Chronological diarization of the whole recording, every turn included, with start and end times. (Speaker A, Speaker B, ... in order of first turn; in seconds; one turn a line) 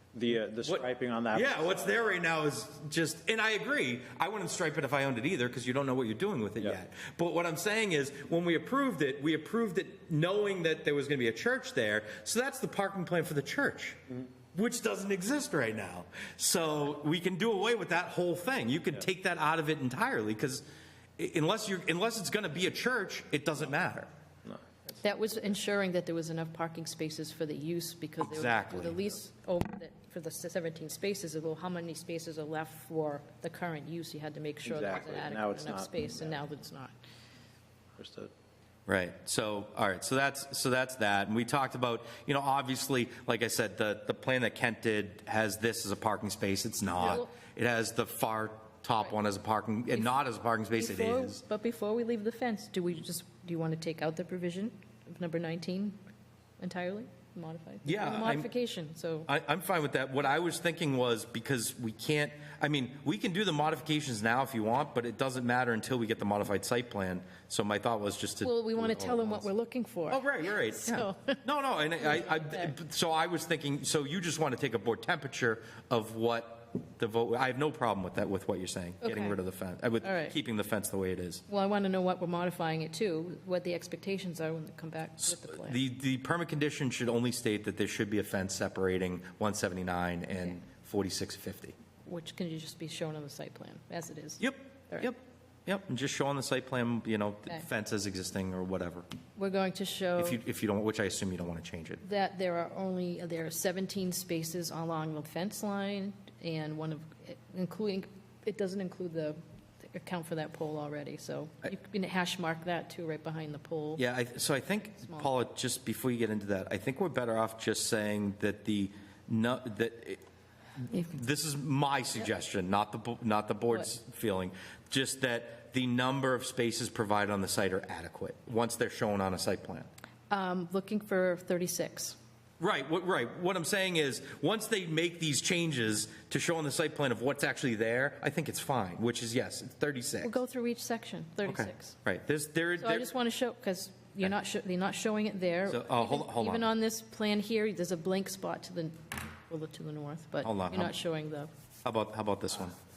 Speaker A: 0.1-2.2
Speaker B: 0.6-14.0
Speaker B: 14.5-20.6
Speaker B: 21.2-24.1
Speaker C: 25.0-36.9
Speaker B: 28.2-29.0
Speaker A: 34.6-36.4
Speaker A: 38.0-38.3
Speaker B: 38.9-51.4
Speaker C: 47.0-47.3
Speaker C: 50.8-56.0
Speaker C: 56.6-59.3
Speaker B: 57.9-58.5
Speaker B: 59.3-69.5
Speaker C: 68.4-71.4
Speaker B: 70.1-81.4
Speaker C: 72.0-72.7
Speaker C: 79.0-79.4
Speaker C: 80.0-80.3
Speaker C: 81.5-85.8
Speaker B: 85.2-91.8
Speaker C: 92.1-95.1
Speaker B: 94.4-99.1
Speaker C: 99.4-100.4
Speaker B: 100.2-102.0
Speaker C: 102.0-114.0
Speaker B: 114.0-120.2
Speaker C: 115.0-115.3
Speaker B: 120.9-129.9
Speaker C: 130.3-132.2
Speaker B: 132.6-140.4
Speaker C: 140.2-142.0
Speaker B: 141.4-143.1
Speaker C: 142.8-151.5
Speaker B: 145.7-146.7
Speaker B: 150.4-150.9
Speaker B: 151.8-152.8